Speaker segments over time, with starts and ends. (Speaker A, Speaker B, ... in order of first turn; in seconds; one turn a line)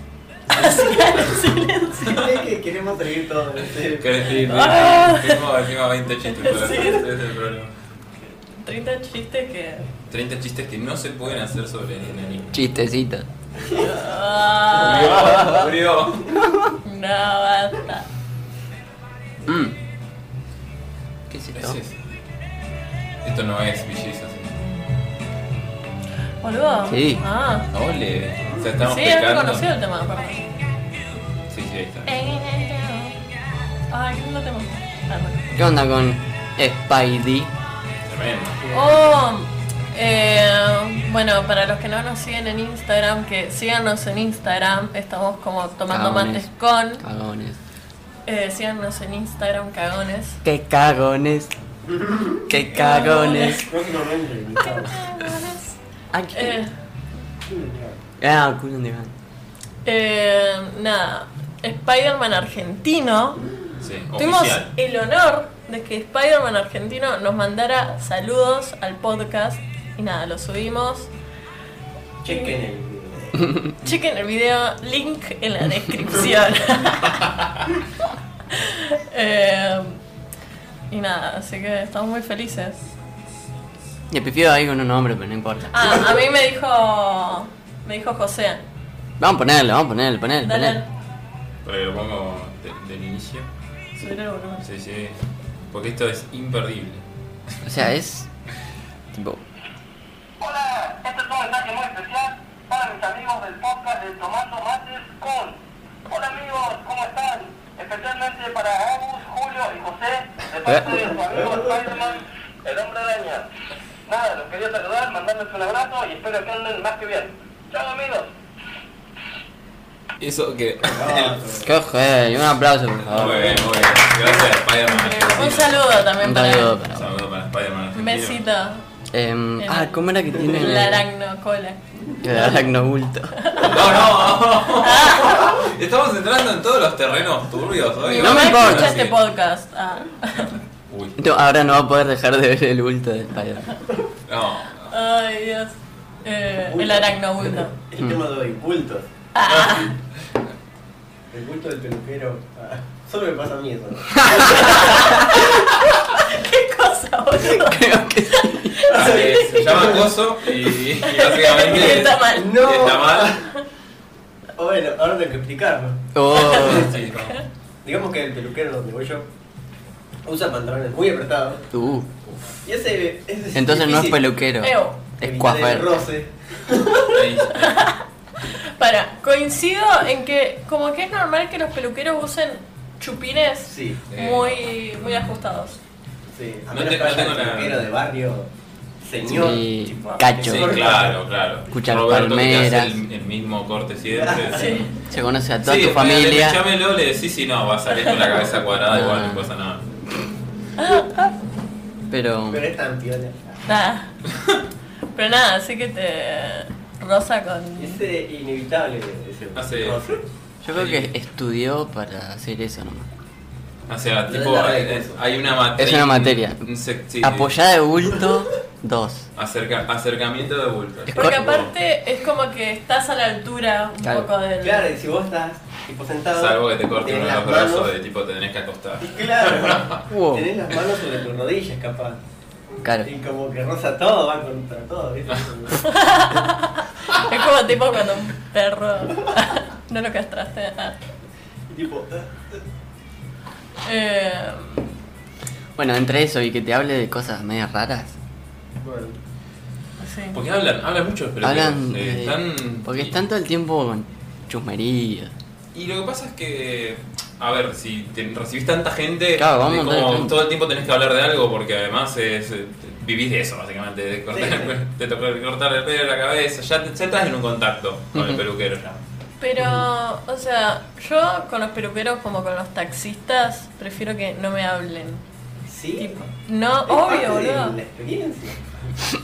Speaker A: 0.5-2.4
Speaker B: 2.0-4.4
Speaker C: 3.9-7.7
Speaker A: 4.3-5.5
Speaker A: 6.2-7.1
Speaker A: 8.6-9.8
Speaker C: 10.1-12.6
Speaker D: 12.5-13.3
Speaker B: 13.6-14.1
Speaker A: 13.7-15.3
Speaker C: 14.7-16.3
Speaker B: 14.9-16.4
Speaker D: 15.2-15.7
Speaker A: 16.8-18.1
Speaker D: 19.4-19.7
Speaker D: 21.3-21.8
Speaker C: 21.5-21.9
Speaker C: 23.2-24.5
Speaker A: 26.4-27.7
Speaker D: 26.9-27.2
Speaker C: 27.7-29.6
Speaker A: 28.8-30.5
Speaker C: 31.5-32.1
Speaker A: 32.0-33.2
Speaker A: 33.9-35.5
Speaker D: 35.5-37.5
Speaker C: 38.0-38.6
Speaker B: 38.6-39.0
Speaker A: 38.7-47.0
Speaker D: 45.9-47.6
Speaker A: 48.3-50.4
Speaker D: 50.4-51.5
Speaker B: 51.9-52.5
Speaker D: 52.5-53.7
Speaker A: 52.7-53.7
Speaker B: 53.6-55.0
Speaker A: 54.6-55.8
Speaker D: 56.1-56.6
Speaker A: 56.3-56.7
Speaker B: 57.5-58.0
Speaker D: 58.2-59.1
Speaker A: 59.8-63.5
Speaker C: 63.8-64.7
Speaker A: 64.2-71.1
Speaker B: 72.2-73.5
Speaker A: 72.3-72.5
Speaker A: 73.8-77.3
Speaker A: 78.5-80.0
Speaker A: 80.9-82.8
Speaker D: 84.1-86.0
Speaker A: 85.7-88.6
Speaker D: 89.2-90.8
Speaker A: 90.4-90.9
Speaker C: 91.6-93.5
Speaker A: 94.0-94.6
Speaker C: 94.6-95.2
Speaker C: 95.7-97.0
Speaker D: 97.6-98.3
Speaker D: 99.1-99.4
Speaker E: 100.4-105.5
Speaker E: 106.1-110.5
Speaker D: 110.5-111.2
Speaker B: 110.9-112.2
Speaker E: 112.6-113.5
Speaker E: 114.1-118.3
Speaker C: 120.2-121.4
Speaker B: 120.8-121.7
Speaker D: 121.6-123.8
Speaker C: 123.1-125.9
Speaker B: 123.4-124.4
Speaker A: 124.8-126.8
Speaker D: 126.2-127.1
Speaker C: 126.9-128.4
Speaker A: 127.9-128.8
Speaker D: 129.1-131.0
Speaker A: 129.6-131.8
Speaker D: 132.2-133.3
Speaker A: 133.3-133.9
Speaker C: 133.6-139.2
Speaker A: 134.6-135.7
Speaker A: 138.0-140.6
Speaker D: 138.2-139.0
Speaker C: 140.9-141.2
Speaker D: 141.2-143.7
Speaker C: 144.3-144.9
Speaker A: 144.9-147.7
Speaker B: 146.6-149.1
Speaker A: 149.3-149.9
Speaker C: 149.5-149.9
Speaker B: 151.3-155.3
Speaker D: 154.1-155.2
Speaker A: 154.4-155.6
Speaker A: 156.1-160.0
Speaker D: 157.3-158.8
Speaker B: 158.9-160.1
Speaker C: 158.9-163.5
Speaker A: 161.0-163.0
Speaker B: 161.6-163.4
Speaker B: 164.6-166.9
Speaker D: 166.1-166.9
Speaker A: 166.3-167.4
Speaker C: 166.4-167.4
Speaker B: 167.8-169.2
Speaker B: 170.2-171.7
Speaker D: 171.7-172.1
Speaker C: 172.3-172.6
Speaker B: 172.6-174.2
Speaker D: 173.5-176.0
Speaker A: 174.6-175.0
Speaker B: 175.2-177.2
Speaker C: 177.0-177.9
Speaker A: 177.5-185.8
Speaker B: 183.7-184.0
Speaker C: 184.1-185.6
Speaker B: 186.3-188.5
Speaker C: 186.7-187.8
Speaker B: 189.0-191.2
Speaker D: 189.2-190.8
Speaker C: 190.4-194.8
Speaker D: 191.7-193.0
Speaker B: 194.1-194.8
Speaker A: 194.5-194.9
Speaker D: 195.0-196.6
Speaker C: 195.6-199.8
Speaker D: 198.9-199.5
Speaker A: 200.8-201.2
Speaker D: 202.1-202.6
Speaker B: 202.5-203.6
Speaker A: 203.7-204.1
Speaker A: 205.1-208.0
Speaker B: 207.8-210.2
Speaker C: 209.5-210.0
Speaker D: 210.6-213.1
Speaker C: 210.7-211.1
Speaker C: 213.9-217.5
Speaker B: 214.3-215.2
Speaker D: 215.8-216.7
Speaker D: 217.2-219.2
Speaker C: 219.3-221.7
Speaker D: 221.1-221.5
Speaker A: 221.1-224.9
Speaker D: 224.0-224.3
Speaker B: 224.6-227.9
Speaker C: 226.3-230.0
Speaker B: 229.0-232.2
Speaker D: 230.1-230.5
Speaker D: 232.8-233.1
Speaker B: 233.0-236.0
Speaker A: 235.8-241.0
Speaker B: 241.7-242.6
Speaker A: 243.8-244.8
Speaker D: 245.8-248.1
Speaker B: 248.8-249.2
Speaker A: 250.0-250.4
Speaker C: 250.3-253.1
Speaker D: 251.4-255.3
Speaker C: 255.7-269.0
Speaker D: 259.4-260.4
Speaker B: 264.3-264.7
Speaker D: 268.1-268.4
Speaker A: 269.4-275.2
Speaker B: 275.7-276.2
Speaker A: 276.0-277.8
Speaker B: 276.9-278.6